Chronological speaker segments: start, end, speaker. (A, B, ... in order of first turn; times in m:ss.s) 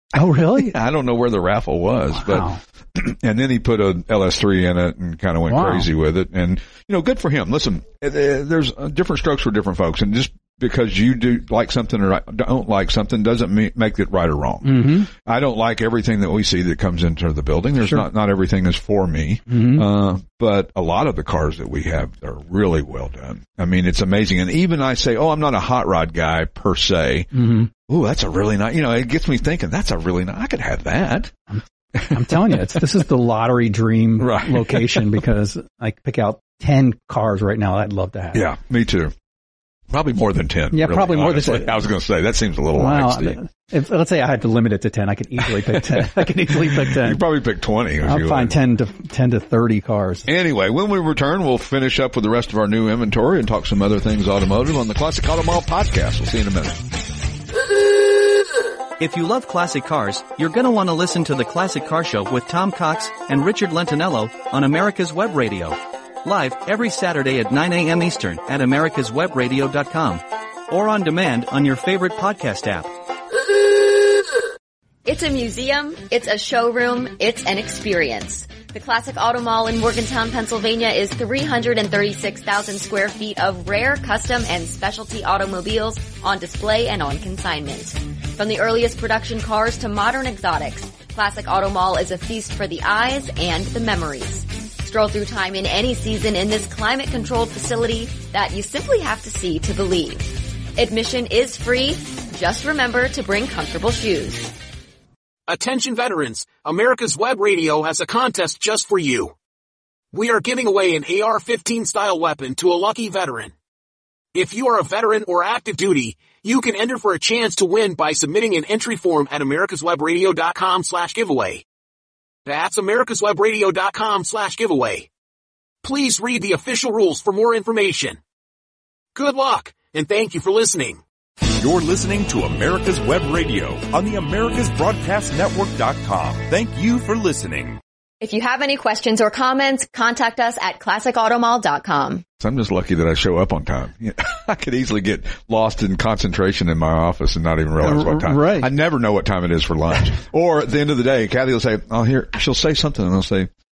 0:00.1-0:00.7 A
0:00.4-0:31.3 B
0:02.1-0:02.6 A
0:05.5-0:05.9 A
0:14.6-0:15.1 A
0:19.5-0:19.9 A
0:27.3-0:27.7 A
0:31.5-0:38.4 A
0:32.0-0:32.7 B
0:34.2-0:35.2 B
0:38.3-0:39.1 B
0:39.9-0:43.4 B
0:40.7-0:41.9 A
0:42.8-0:47.2 A
0:45.4-0:48.6 B
0:48.0-0:50.3 A
0:50.3-0:56.8 B
0:59.0-1:12.9 C
1:15.1-1:44.5 D
1:45.5-1:49.3 E
1:50.1-1:53.5 E
1:54.3-2:01.6 E
2:02.5-2:05.1 E
2:05.8-2:08.2 E
2:09.2-2:11.0 E
2:11.6-2:17.8 F
2:18.2-2:22.2 D
2:22.4-2:33.5 B
2:27.8-2:28.7 A